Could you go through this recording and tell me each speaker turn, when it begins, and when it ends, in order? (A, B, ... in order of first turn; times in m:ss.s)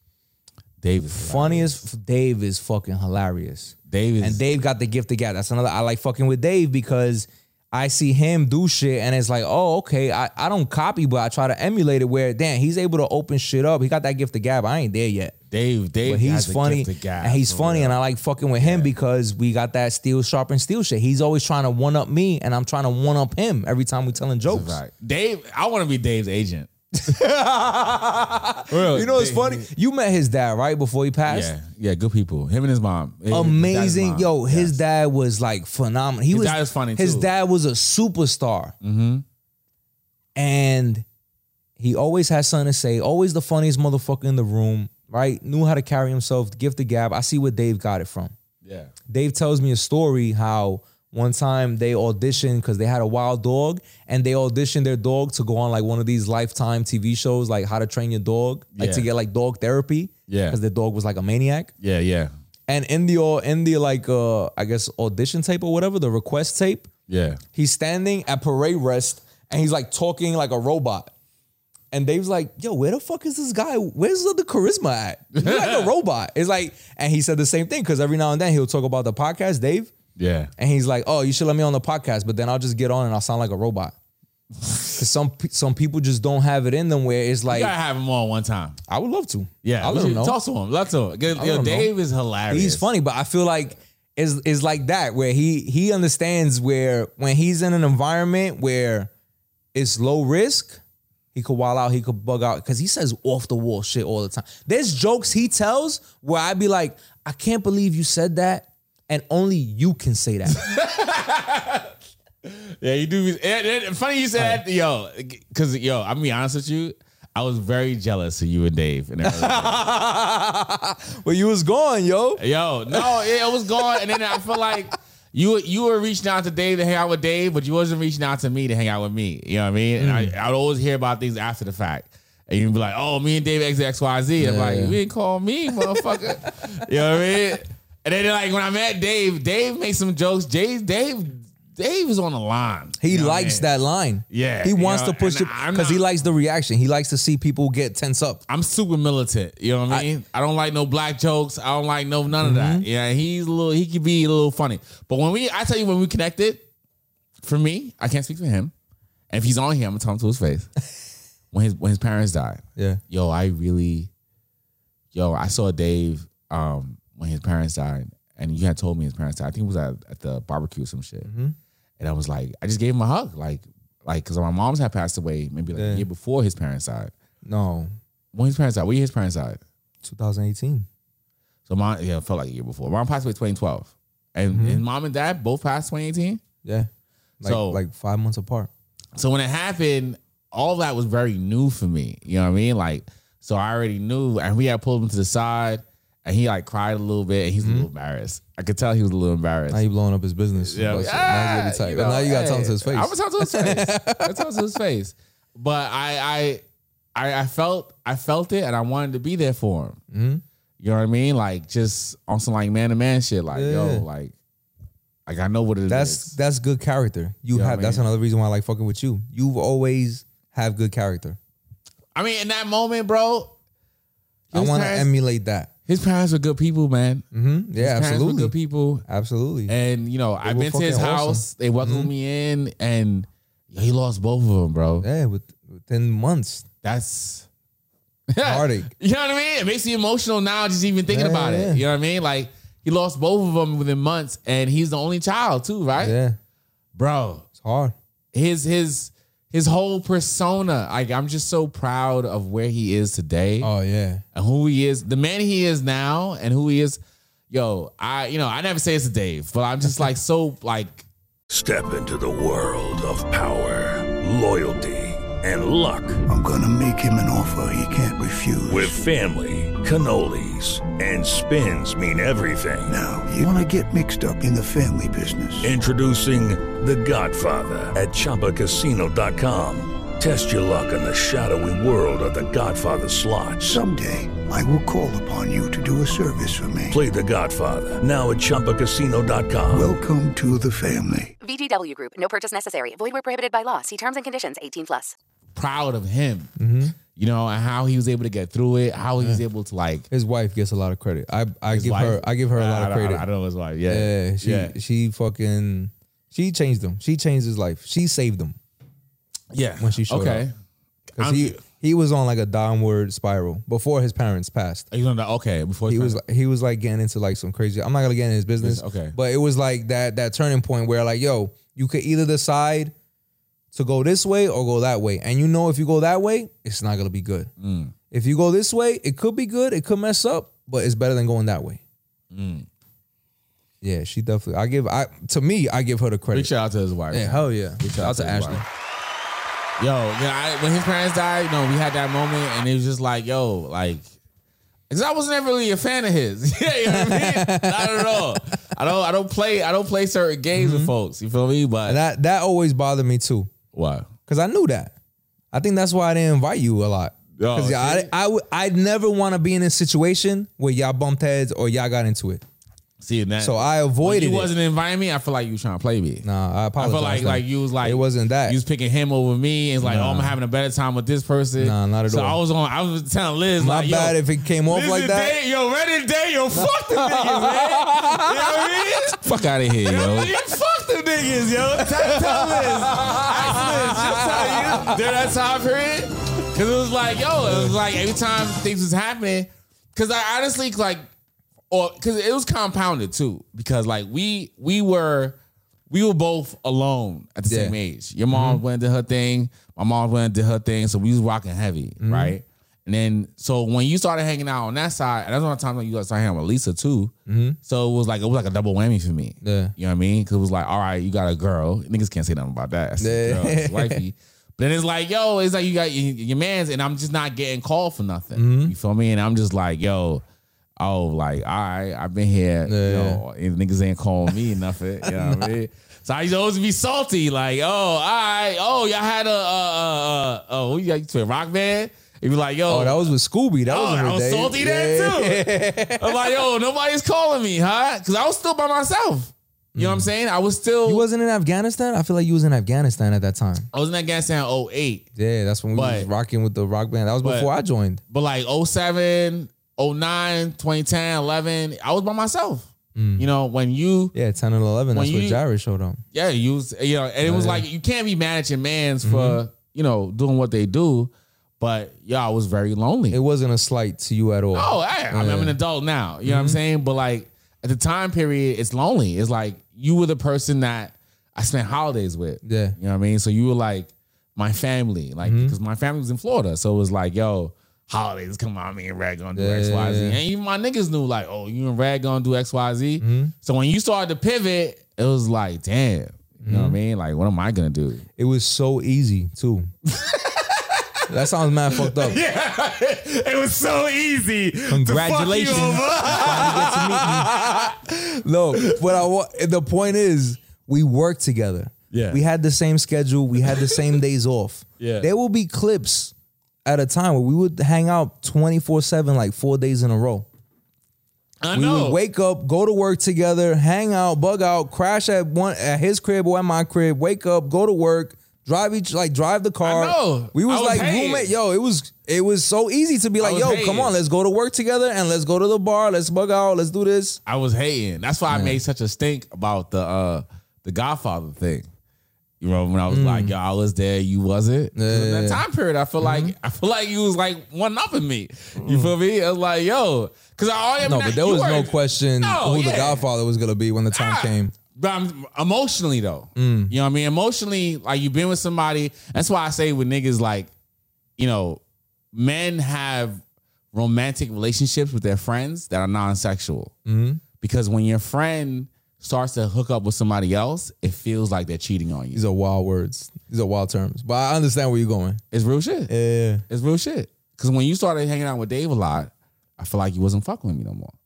0:00.8-0:01.8 A
0:01.1-0:15.3 B
0:03.9-0:04.4 A
0:15.5-0:18.0 A
0:16.0-0:24.8 B
0:18.6-0:18.9 A
0:24.5-0:26.7 A
0:27.0-0:31.5 B
0:28.7-0:29.6 A
0:31.3-0:34.8 A
0:33.3-0:38.7 B
0:36.3-0:37.3 A
0:38.8-0:39.2 A
0:40.3-0:41.0 B
0:41.8-0:48.3 B
0:48.6-0:48.9 A
0:49.1-1:01.7 B
0:58.7-0:59.1 A
1:00.3-1:00.6 A
1:01.8-1:02.3 A
1:02.7-1:06.9 B
1:07.1-1:07.4 A
1:07.5-1:11.1 B
1:11.9-1:19.9 B
1:15.3-1:15.9 A
1:20.2-1:20.5 A
1:20.6-1:23.9 B
1:24.6-1:24.9 A
1:25.0-1:27.7 B
1:27.5-1:28.8 A
1:28.9-1:30.4 B
1:29.6-1:32.9 A
1:31.3-1:31.9 B
1:32.5-1:39.1 B
1:39.7-1:40.8 B
1:41.3-1:50.6 B
1:50.6-1:51.9 A
1:52.4-1:59.8 A
1:59.2-2:03.3 B
2:02.4-2:23.7 A
2:10.0-2:10.3 B
2:14.4-2:15.0 B
2:23.0-2:28.4 B
2:24.3-2:26.0 A
2:28.5-2:36.6 A
2:32.4-2:32.8 B
2:37.4-2:38.7 A
2:39.3-2:40.7 A
2:41.5-2:44.1 A
2:45.1-2:51.3 A
2:51.2-2:51.6 B
2:52.0-2:57.1 A
2:55.7-2:56.1 B
2:57.4-2:57.9 B
2:58.3-2:59.6 A
3:00.0-3:00.9 B
3:01.7-3:06.4 A
3:04.5-3:04.8 B
3:06.6-3:06.9 B
3:07.4-3:08.7 B
3:07.4-3:07.8 A
3:09.1-3:19.8 A
3:17.6-3:17.9 B
3:19.7-3:24.4 B
3:20.6-3:26.6 A
3:27.1-3:30.0 A
3:30.1-3:30.4 B
3:30.8-3:34.3 A
3:33.5-3:34.0 B
3:35.3-3:36.3 A
3:35.9-3:41.4 B
3:37.5-3:38.0 A
3:42.1-3:43.5 A
3:44.5-3:45.1 A
3:44.5-3:45.7 B
3:45.9-3:47.2 A
3:47.3-3:48.5 B
3:47.8-3:49.0 A
3:49.1-3:49.7 B
3:49.7-3:55.0 A
3:50.4-3:52.1 B
3:55.0-3:56.6 B
3:56.8-3:57.5 A
3:58.3-4:06.1 A
3:58.4-3:58.9 B
4:01.1-4:01.8 B
4:06.0-4:06.4 B
4:06.9-4:07.4 A
4:07.6-4:07.9 B
4:08.3-4:13.7 A
4:13.6-4:14.2 B
4:14.3-4:21.0 A
4:21.5-4:26.2 C
4:26.3-4:28.9 D
4:28.7-4:33.0 C
4:32.9-4:35.7 D
4:35.6-4:43.8 C
4:43.6-4:47.0 D
4:46.9-4:49.9 C
4:49.7-4:51.3 D
4:51.4-4:55.1 E
4:55.6-4:56.5 A
4:56.6-4:56.9 B
4:57.1-5:00.1 A
5:00.1-5:03.3 B
5:01.7-5:04.7 A
5:03.9-5:08.6 B
5:09.5-5:10.5 A
5:09.8-5:10.4 B
5:11.2-5:14.9 B
5:11.2-5:11.6 A
5:14.9-5:16.2 A
5:15.9-5:22.9 B
5:18.6-5:19.1 A
5:23.7-5:27.5 B
5:27.6-5:27.9 A
5:28.1-5:31.8 B
5:32.3-5:32.7 A
5:33.8-5:36.5 B
5:36.3-5:38.6 A
5:37.1-5:38.6 B
5:39.8-5:44.1 A
5:44.9-5:52.0 A
5:46.9-5:48.2 B
5:50.5-5:50.9 B
5:51.8-5:53.5 B
5:53.7-5:54.1 A
5:54.3-5:54.9 B
5:55.5-6:02.4 B
5:57.4-5:58.1 A
6:03.0-6:06.2 A
6:03.4-6:04.5 B
6:06.2-6:08.6 B
6:06.8-6:31.1 A
6:09.8-6:10.4 B
6:11.6-6:12.4 B
6:13.6-6:15.3 B
6:16.5-6:18.9 B
6:19.8-6:20.4 B
6:21.7-6:25.0 B
6:27.4-6:27.7 B
6:31.7-6:35.4 A
6:35.9-6:47.1 A
6:37.5-6:37.7 B
6:38.3-6:38.6 B
6:42.0-6:42.4 B
6:47.3-6:47.6 B
6:47.6-7:00.2 A
6:49.4-6:49.7 B
6:53.0-6:54.0 B
6:58.3-6:58.7 B
7:00.8-7:13.1 A
7:02.6-7:03.2 B
7:05.1-7:05.5 B
7:12.7-7:16.1 B
7:13.6-7:21.0 A
7:19.7-7:20.1 B
7:20.8-7:23.7 B
7:23.7-7:25.1 A
7:25.2-7:28.0 B
7:25.7-7:26.1 A
7:27.2-7:27.5 A
7:28.1-7:34.1 A
7:32.9-7:33.3 B
7:34.1-7:36.0 B
7:34.9-7:35.4 A
7:36.1-7:43.2 A
7:37.2-7:37.6 B
7:39.0-7:39.4 B
7:43.1-7:45.6 B
7:44.5-8:08.0 A
7:46.2-7:46.6 B
7:52.4-7:52.8 B
7:55.2-7:55.6 B
7:59.3-8:00.2 B
8:03.0-8:03.3 B
8:06.4-8:06.8 B
8:08.2-8:09.7 B
8:10.0-8:10.8 A
8:11.1-8:12.2 B
8:11.7-8:17.8 A
8:14.7-8:26.1 B
8:18.5-8:18.8 A
8:21.9-8:22.2 A
8:23.4-8:23.8 A
8:24.8-8:25.1 A
8:26.6-8:30.3 B
8:31.4-8:32.0 A
8:31.5-8:47.2 B
8:39.6-8:41.3 A
8:43.2-8:43.9 A
8:47.3-8:51.7 A
8:48.3-8:48.6 B
8:52.4-9:03.0 A
8:52.9-8:53.3 B
8:54.7-8:55.4 B
8:56.0-8:56.3 B
8:58.6-8:58.9 B
9:00.8-9:04.5 B
9:03.9-9:10.5 A
9:06.4-9:06.7 B
9:11.2-9:11.6 A
9:12.1-9:13.2 A
9:13.7-9:16.7 A
9:16.8-9:17.2 B
9:17.4-9:22.2 A
9:22.1-9:25.2 B
9:25.3-9:25.9 A
9:25.9-9:26.4 B
9:26.5-9:30.9 A